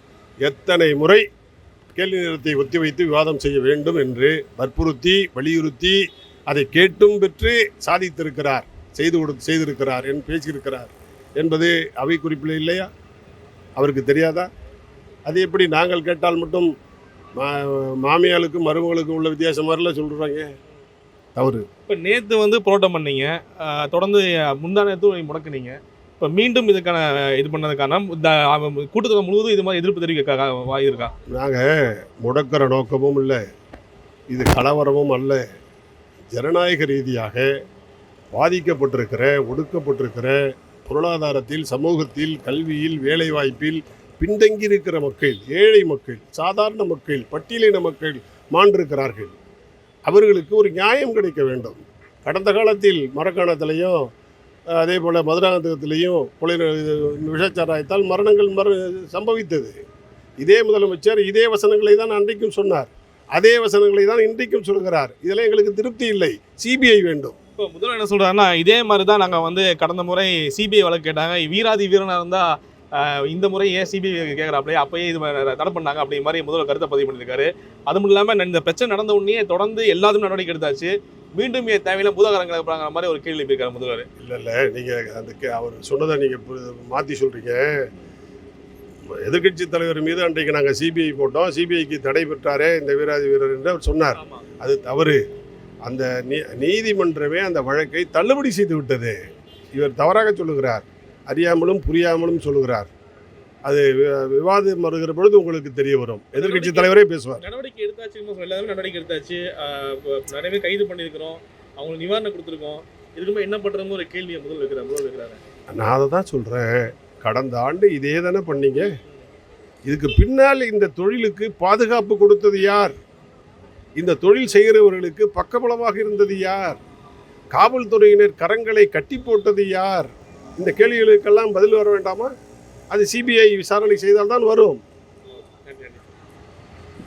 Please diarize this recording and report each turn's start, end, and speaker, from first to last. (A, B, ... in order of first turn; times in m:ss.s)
0:00.4-0:01.2 A
0:02.0-0:12.9 A
0:13.8-0:14.5 A
0:15.3-0:16.7 A
0:17.4-0:20.5 A
0:21.4-0:21.7 A
0:21.9-0:31.1 B
0:31.3-0:33.4 A
0:34.3-0:35.4 A
0:36.3-0:37.5 A
0:38.3-0:49.3 A
0:50.1-0:54.0 A
0:54.7-0:59.8 A
1:00.4-1:07.4 A
1:07.6-1:24.1 B
1:24.2-1:27.7 A
1:29.2-1:35.2 A
1:34.2-1:34.4 B
1:35.8-1:39.2 A
1:39.7-1:42.9 A
1:43.6-1:47.4 A
1:46.3-1:55.4 B
1:55.7-1:58.9 A
1:59.9-2:02.9 A
2:04.0-2:06.8 A
2:07.6-2:10.1 A
2:10.6-2:12.3 A
2:12.9-2:14.8 A
2:15.4-2:16.1 B